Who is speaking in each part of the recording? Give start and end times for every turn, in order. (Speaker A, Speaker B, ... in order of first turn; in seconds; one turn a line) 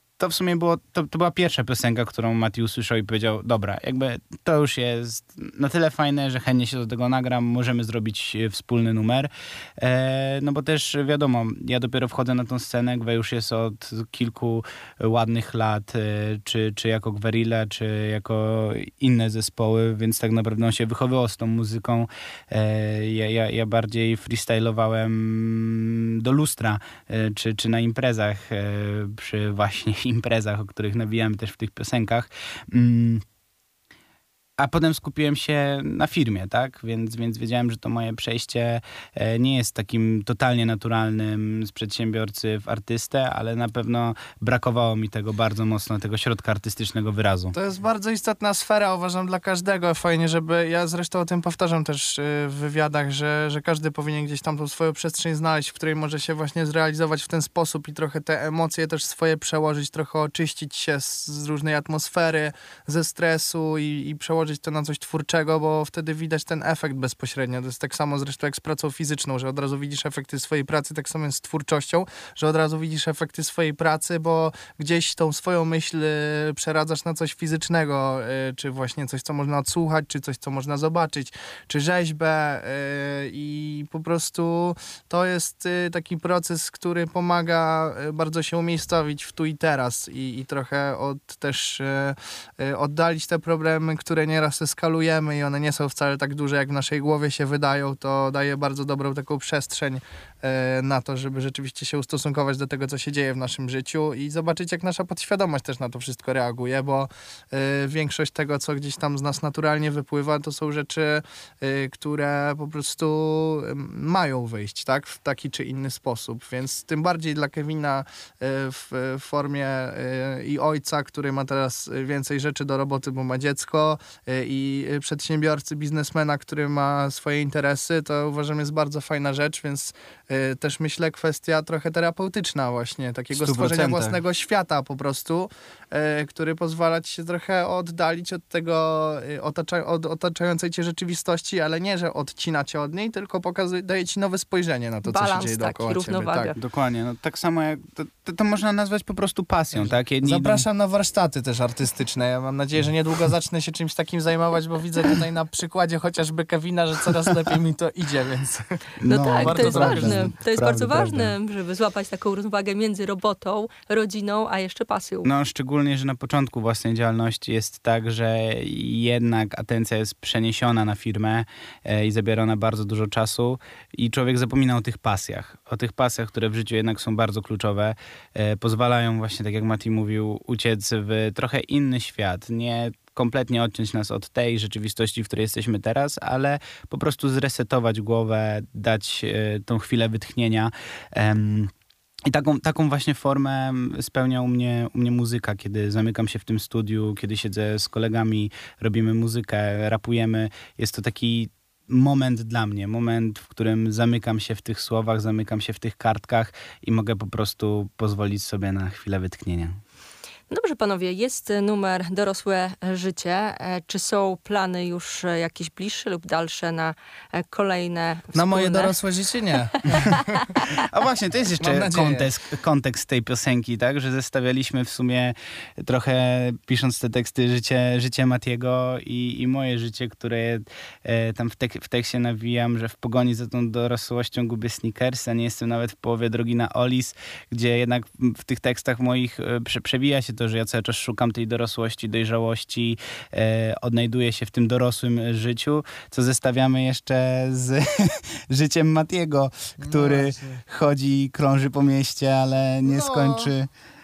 Speaker A: 0.2-33.2
Speaker A: 34.6-47.5
Speaker B: 47.5-146.5
Speaker A: 133.3-134.2
Speaker C: 145.0-146.6
Speaker A: 146.6-150.6
Speaker B: 149.8-158.6
Speaker A: 159.0-161.3
Speaker C: 159.1-165.3
Speaker B: 159.5-159.8
Speaker A: 165.2-191.7
Speaker A: 192.3-209.8
Speaker C: 210.5-218.9
Speaker B: 218.3-220.1
Speaker A: 220.6-253.7
Speaker B: 221.6-222.2
Speaker B: 249.8-250.6
Speaker B: 252.9-253.4